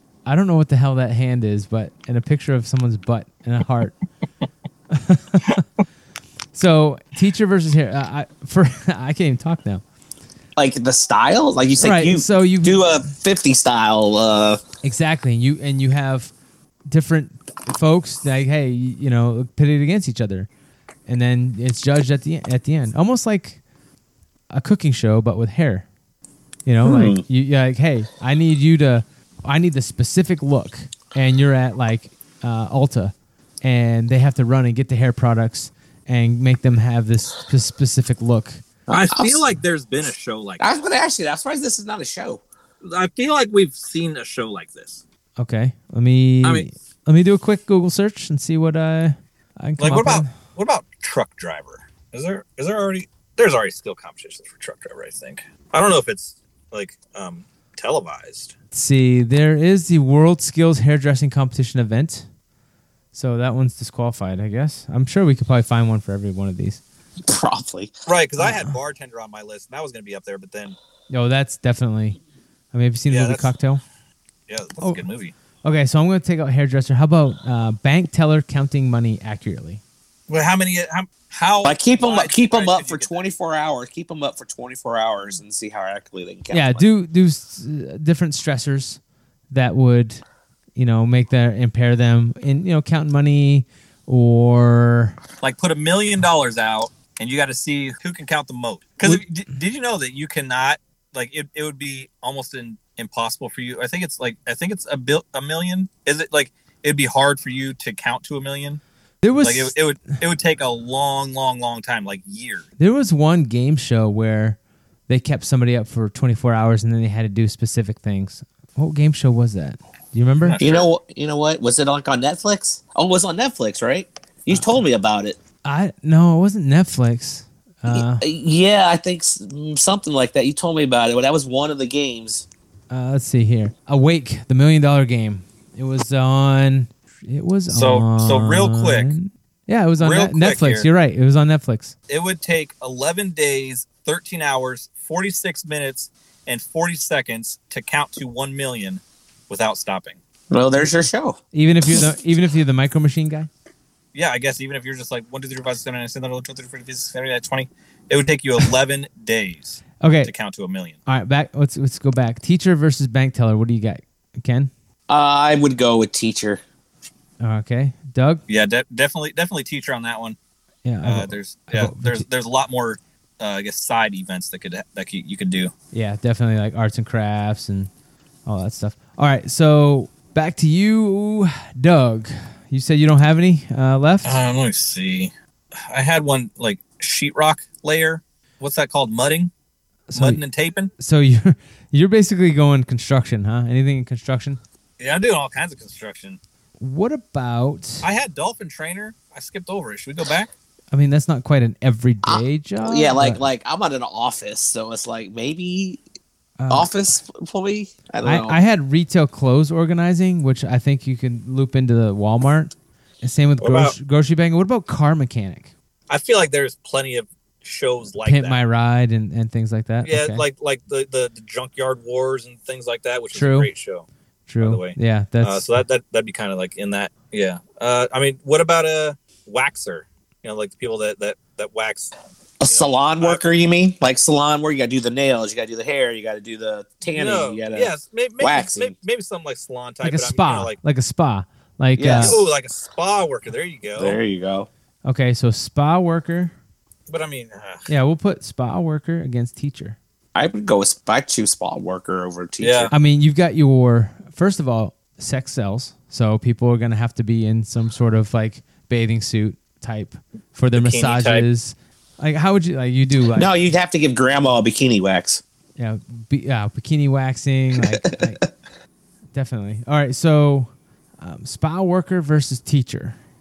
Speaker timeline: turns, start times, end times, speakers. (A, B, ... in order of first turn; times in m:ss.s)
0:00.2-0:04.0 A
0:04.9-0:05.6 A
0:06.5-0:09.8 A
0:10.6-0:14.6 B
0:11.8-0:12.8 A
0:14.8-0:16.3 A
0:16.9-0:20.5 A
0:21.1-0:23.6 A
0:24.5-0:25.9 A
0:26.6-0:38.6 A
0:26.8-0:27.2 B
0:38.9-0:39.4 B
0:38.9-0:40.6 C
0:40.6-0:42.4 B
0:42.8-0:45.0 C
0:45.4-0:50.3 A
0:49.8-0:58.5 C
0:58.7-1:02.3 A
1:03.1-1:06.8 A
1:07.2-1:07.9 B
1:08.1-1:10.8 C
1:08.4-1:08.7 A
1:11.1-1:12.2 A
1:12.7-1:13.8 A
1:13.1-1:13.5 C
1:14.5-1:15.3 C
1:15.6-1:19.8 A
1:20.3-1:23.2 C
1:21.6-1:26.8 B
1:26.5-1:29.0 A
1:29.5-1:30.2 A
1:30.8-1:35.2 A
1:35.4-1:48.8 C
1:49.2-1:49.8 A
1:49.4-1:52.7 C
1:52.8-2:00.6 A
2:00.4-2:00.9 C
2:00.6-2:05.4 B
2:04.5-2:04.8 A
2:05.6-2:08.2 A
2:07.9-2:12.5 B
2:12.9-2:21.9 A
2:17.7-2:19.1 C
2:20.0-2:20.8 C
2:22.1-2:30.2 C
2:30.5-2:31.4 B
2:31.5-2:33.5 A
2:34.1-2:41.0 C
2:40.0-2:40.3 A
2:41.0-2:44.7 A
2:45.1-2:46.6 B
2:47.4-2:48.4 A
2:48.5-2:50.4 C
2:50.8-2:52.2 A
2:51.0-2:55.7 C
2:55.9-2:57.9 A
2:58.4-3:04.4 A
3:04.2-3:05.3 C
3:05.9-3:09.5 C
3:10.1-3:10.4 A
3:10.1-3:10.9 C
3:11.0-3:14.6 A
3:15.0-3:16.4 C
3:16.8-3:18.1 A
3:18.0-3:20.5 C
3:20.9-3:23.5 A
3:22.2-3:26.0 B
3:26.6-3:26.9 A
3:26.7-3:28.6 B
3:28.2-3:35.7 A
3:33.6-3:33.9 C
3:36.1-3:38.6 C
3:38.2-3:40.4 A
3:40.0-3:44.0 C
3:43.3-3:43.7 A
3:44.5-3:45.7 A
3:44.6-3:52.1 C
3:52.6-3:58.9 B
3:52.7-3:53.4 C
3:57.1-4:00.8 C
4:00.0-4:02.4 A
4:02.0-4:02.5 B
4:02.2-4:04.2 C
4:04.0-4:04.7 B
4:05.0-4:06.5 A
4:07.1-4:07.9 C
4:07.9-4:10.0 A
4:10.3-4:12.9 B
4:12.6-4:12.9 C
4:12.9-4:23.5 A
4:20.7-4:21.5 C
4:23.3-4:25.4 B
4:25.8-4:28.4 A
4:27.8-4:28.5 B
4:29.3-4:33.2 A